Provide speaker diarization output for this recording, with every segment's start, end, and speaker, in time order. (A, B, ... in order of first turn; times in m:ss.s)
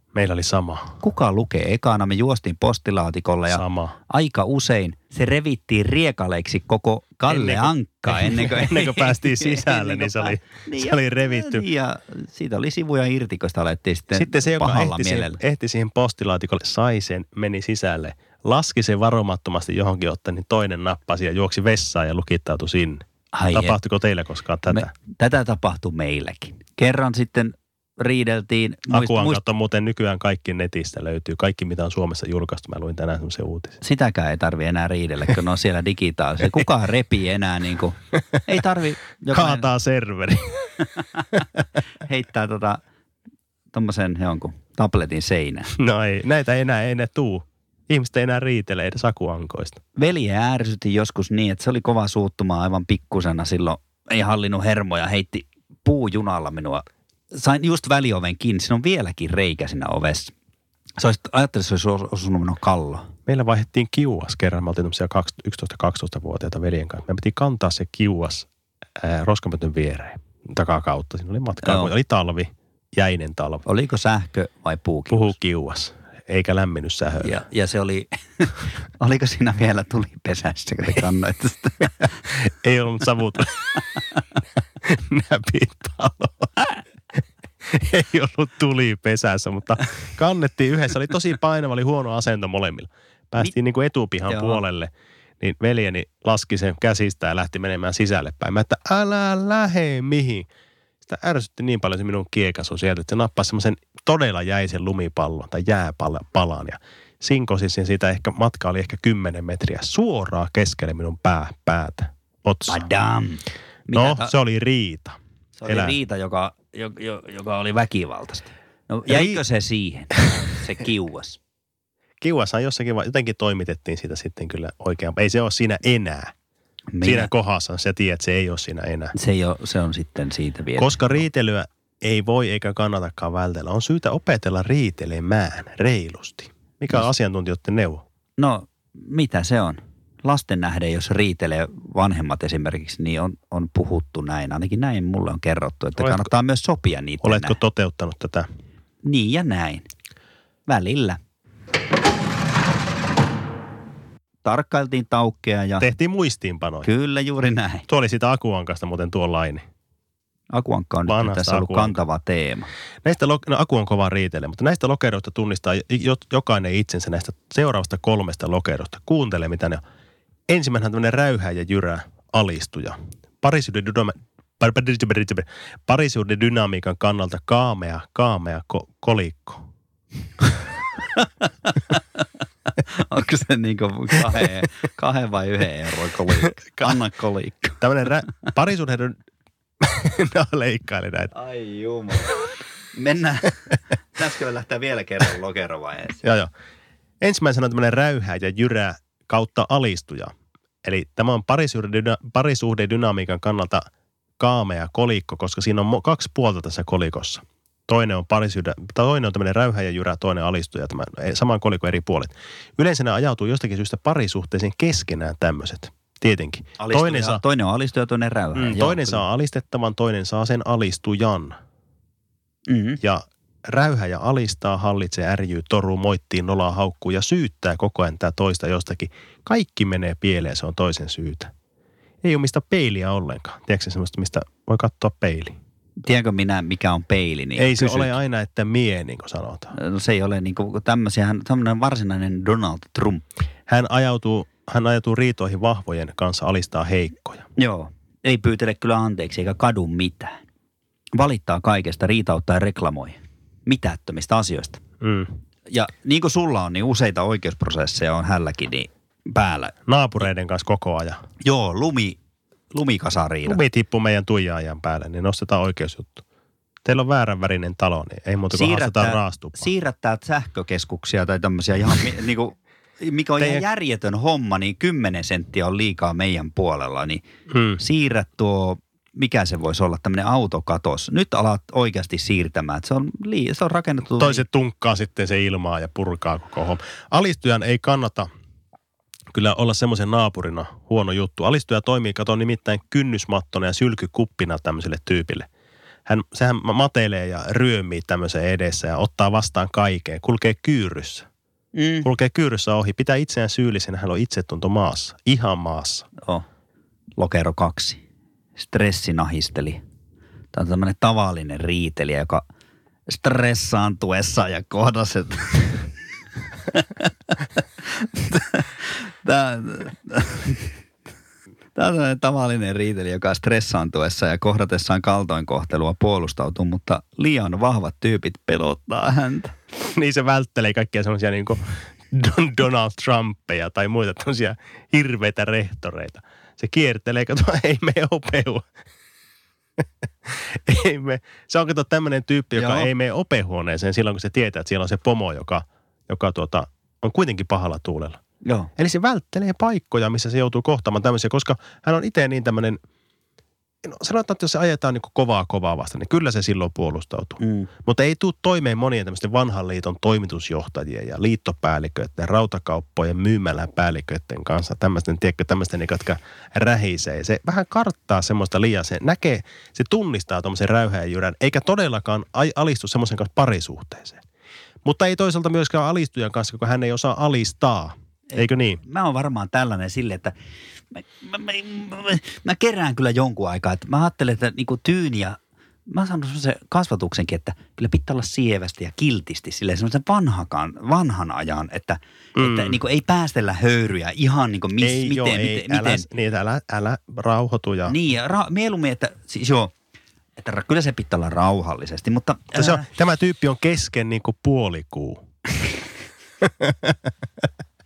0:00.1-0:01.0 A
0:01.0-0:15.4 B
0:03.5-0:04.0 A
0:07.3-0:11.6 A
0:14.1-0:24.9 A
0:23.3-0:23.8 B
0:24.7-0:29.4 B
0:28.9-0:33.8 A
0:33.8-0:39.7 B
0:39.3-0:41.4 A
0:42.0-0:42.8 B
0:43.7-0:45.7 B
0:45.8-0:49.8 A
0:50.0-1:00.3 B
1:01.0-1:03.1 B
1:03.3-1:08.5 A
1:09.0-1:13.6 A
1:11.6-1:11.9 B
1:13.6-1:15.3 B
1:15.1-1:17.4 A
1:17.2-1:22.2 B
1:22.3-1:24.0 A
1:24.8-1:26.8 A
1:27.6-1:40.5 A
1:34.3-1:34.6 B
1:41.0-1:52.8 A
1:52.7-1:54.3 B
1:53.9-1:56.0 A
1:55.6-2:01.4 B
1:59.1-1:59.4 A
2:02.2-2:06.3 A
2:06.9-2:07.3 B
2:07.0-2:09.1 A
2:09.1-2:11.3 B
2:10.8-2:18.0 A
2:18.4-2:27.6 B
2:26.0-2:26.3 A
2:27.2-2:28.5 A
2:29.0-2:29.9 B
2:30.7-2:31.2 B
2:34.4-2:35.9 B
2:35.8-2:36.9 A
2:36.8-2:37.8 B
2:37.9-2:39.6 A
2:40.5-2:42.7 B
2:41.0-2:42.0 A
2:43.0-2:49.8 A
2:50.5-2:59.6 A
3:01.2-3:02.0 B
3:02.8-3:07.8 B
3:06.4-3:07.0 A
3:07.8-3:09.2 A
3:09.8-3:11.3 A
3:11.3-3:12.4 B
3:12.9-3:16.2 B
3:16.2-3:16.5 A
3:17.2-3:23.9 A
3:24.4-3:37.4 A
3:36.8-3:39.2 B
3:38.5-3:41.6 A
3:42.7-3:43.0 B
3:43.0-3:51.5 A
3:52.2-3:55.6 A
3:56.0-3:58.1 B
3:57.6-3:59.7 A
3:59.7-4:03.2 B
4:03.7-4:07.5 A
4:07.6-4:10.4 B
4:11.1-4:14.8 B
4:15.0-4:15.3 A
4:15.7-4:19.7 B
4:19.8-4:21.2 A
4:21.4-4:22.2 B
4:22.7-4:23.6 B
4:23.4-4:26.2 A
4:26.8-4:29.7 A
4:28.5-4:37.2 B
4:33.4-4:33.6 A
4:37.5-4:37.8 A
4:37.8-4:44.4 B
4:44.1-4:48.3 A
4:49.3-4:55.5 A
4:56.0-5:01.3 A
5:01.7-5:02.1 B
5:02.0-5:06.1 A
5:07.2-5:08.0 B
5:08.6-5:09.8 B
5:10.5-5:12.4 B
5:13.1-5:15.9 B
5:16.7-5:20.7 B
5:21.8-5:29.5 B
5:29.8-5:38.7 A
5:39.8-5:48.2 A
5:42.6-5:42.9 B
5:48.4-5:48.7 B
5:48.8-5:52.8 A
5:53.8-6:14.2 A
5:57.4-5:57.7 B
6:14.8-6:18.8 A
6:18.3-6:20.3 B
6:20.9-6:36.1 B
6:32.4-6:32.8 A
6:34.8-6:38.0 A
6:37.9-6:39.7 B
6:40.4-6:42.9 B
6:42.5-6:45.2 A
6:46.4-6:47.4 A